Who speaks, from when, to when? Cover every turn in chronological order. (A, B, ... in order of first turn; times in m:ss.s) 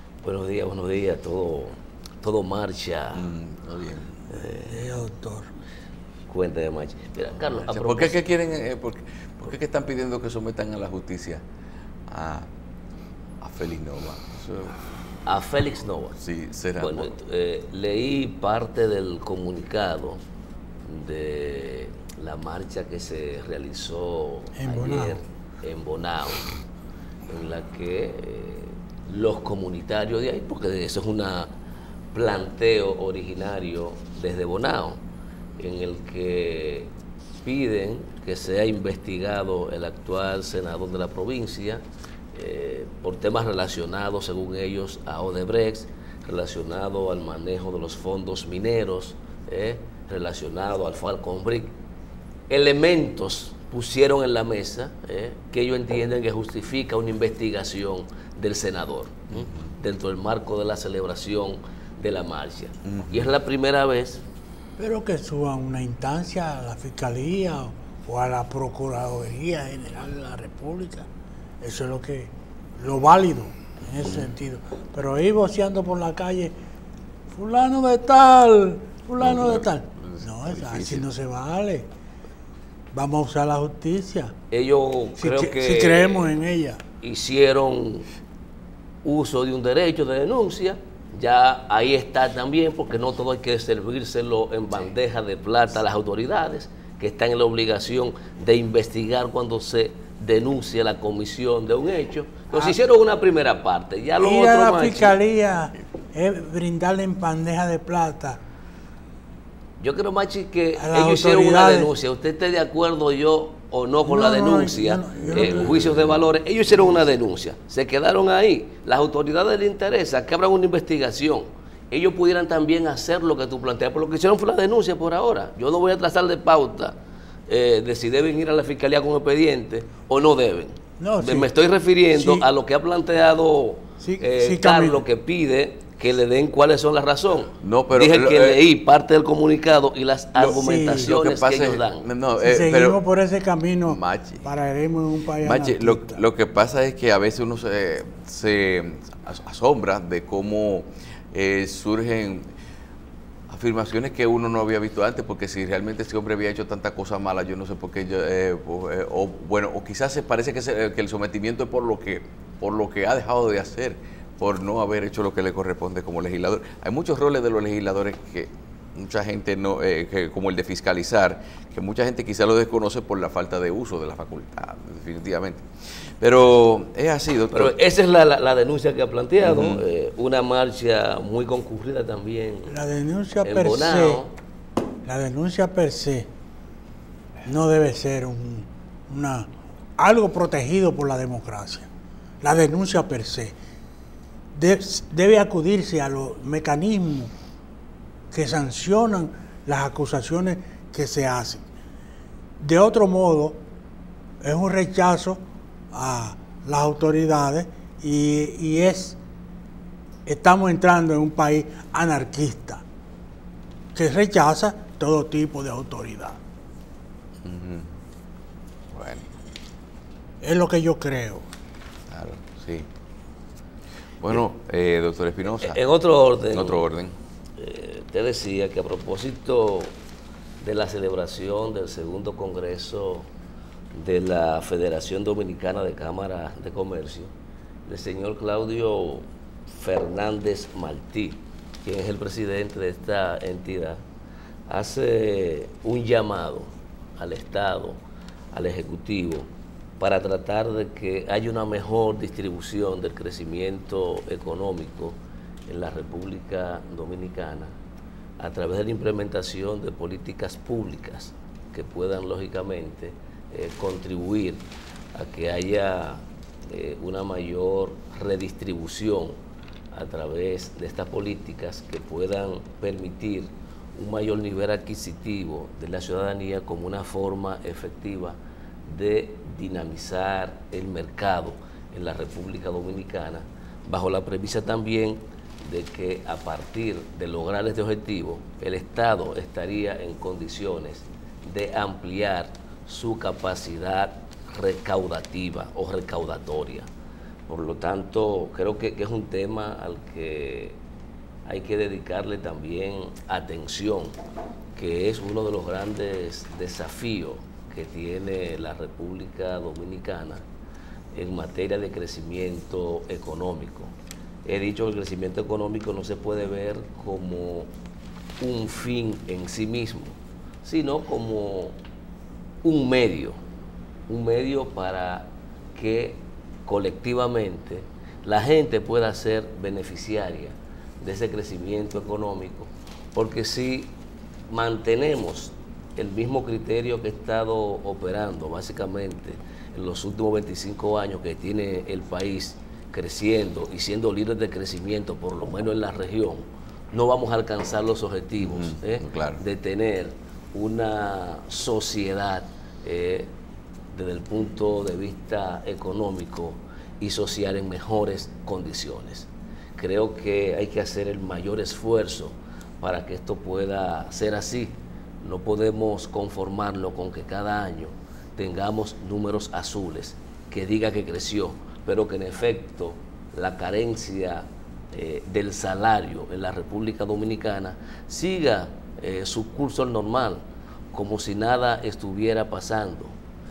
0:00.2-0:03.3 A
0:03.2-0:04.2 B
0:04.3-0:04.9 A
0:04.6-0:05.5 C
0:06.3-0:08.2 A
0:07.7-0:11.4 B
0:12.1-0:12.5 B
0:13.4-0:14.8 B
0:15.3-0:16.2 A
0:16.2-0:17.1 B
0:16.8-0:20.2 A
0:20.8-0:26.5 A
0:24.6-0:25.2 C
0:27.3-0:31.5 A
0:32.1-0:35.0 A
0:35.6-0:41.8 A
0:42.3-0:51.7 A
0:52.5-1:04.2 A
1:02.9-1:03.3 B
1:04.8-1:11.1 C
1:11.6-1:16.5 C
1:14.0-1:14.3 B
1:17.3-1:21.9 C
1:19.2-1:21.1 B
1:22.9-1:24.3 C
1:24.5-1:26.3 A
1:25.2-1:26.8 C
1:27.0-1:28.1 A
1:29.0-1:45.2 A
1:44.2-1:48.4 C
1:49.8-2:07.0 A
1:50.8-1:51.9 C
1:54.1-1:55.9 C
1:55.6-1:56.2 B
2:07.5-2:22.1 A
2:11.0-2:11.5 C
2:12.1-2:12.5 C
2:14.0-2:15.0 C
2:17.6-2:18.6 B
2:20.4-2:23.0 B
2:20.4-2:21.1 C
2:22.4-2:26.2 C
2:23.8-2:24.5 B
2:25.4-2:32.5 B
2:33.5-2:55.7 B
2:56.2-2:57.8 B
2:57.5-3:02.8 A
2:59.4-2:59.8 B
3:02.7-3:04.2 C
3:03.4-3:04.3 A
3:05.0-3:06.3 C
3:07.4-3:11.9 C
3:12.4-3:13.6 C
3:14.6-3:17.3 C
3:18.3-3:21.6 C
3:22.6-3:23.6 C
3:24.4-3:25.4 C
3:25.9-3:29.2 C
3:30.3-3:32.8 C
3:34.0-3:36.4 C
3:37.4-3:37.9 B
3:38.9-3:39.2 B
3:40.4-3:41.5 C
3:42.1-3:42.9 B
3:44.2-3:45.8 B
3:45.5-3:46.9 A
3:46.5-3:47.1 B
3:47.6-3:49.9 A
3:50.6-3:53.3 A
3:53.9-3:57.3 A
3:57.9-4:04.0 A
4:04.7-4:08.0 A
4:08.5-4:09.5 A
4:10.0-4:17.7 A
4:18.4-4:29.4 A
4:29.9-4:56.9 A
4:57.5-5:00.8 A
5:01.5-5:04.2 A
5:04.8-5:10.4 A
5:11.1-5:13.9 A
5:14.4-5:17.7 A
5:18.4-5:21.8 A
5:22.6-5:23.4 A
5:24.1-5:34.0 A
5:34.5-5:53.3 A
5:48.4-5:49.4 B
5:53.9-6:23.2 A